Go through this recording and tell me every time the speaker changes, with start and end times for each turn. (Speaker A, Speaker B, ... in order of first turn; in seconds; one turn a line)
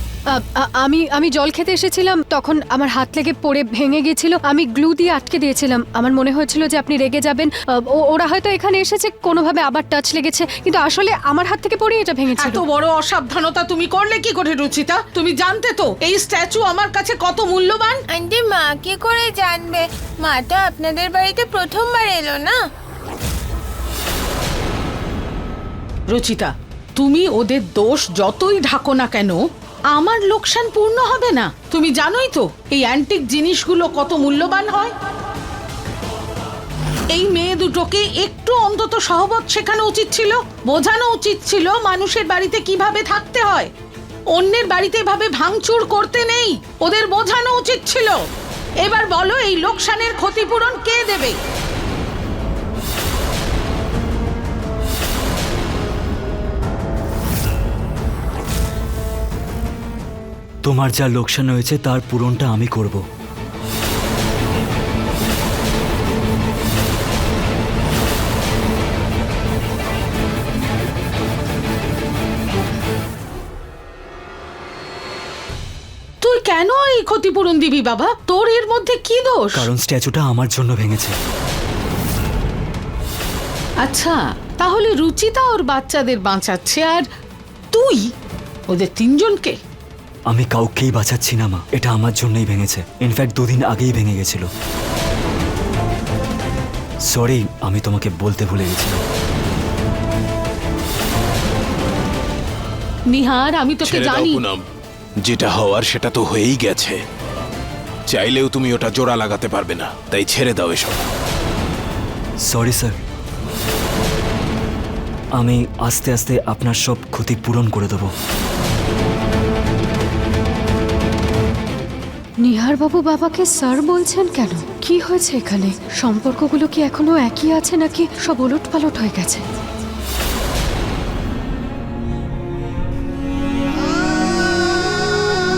Speaker A: 0.3-12.6
Speaker B: 12.4-18.0
Speaker C: 18.1-22.6
Speaker B: 26.1-29.4
Speaker B: 29.9-34.9
Speaker B: 37.1-43.7
Speaker B: 44.3-48.2
Speaker B: 48.8-51.4
Speaker D: 60.7-63.0
Speaker B: 76.2-79.6
Speaker D: 79.5-81.2
Speaker B: 83.8-87.1
Speaker B: 87.7-88.1
Speaker B: 88.7-89.6
Speaker D: 90.3-94.5
Speaker D: 97.1-99.0
Speaker B: 103.1-104.5
Speaker E: 103.8-104.6
Speaker E: 105.2-107.0
Speaker E: 108.1-111.1
Speaker D: 112.5-113.0
Speaker D: 115.4-118.1
Speaker A: 122.4-129.4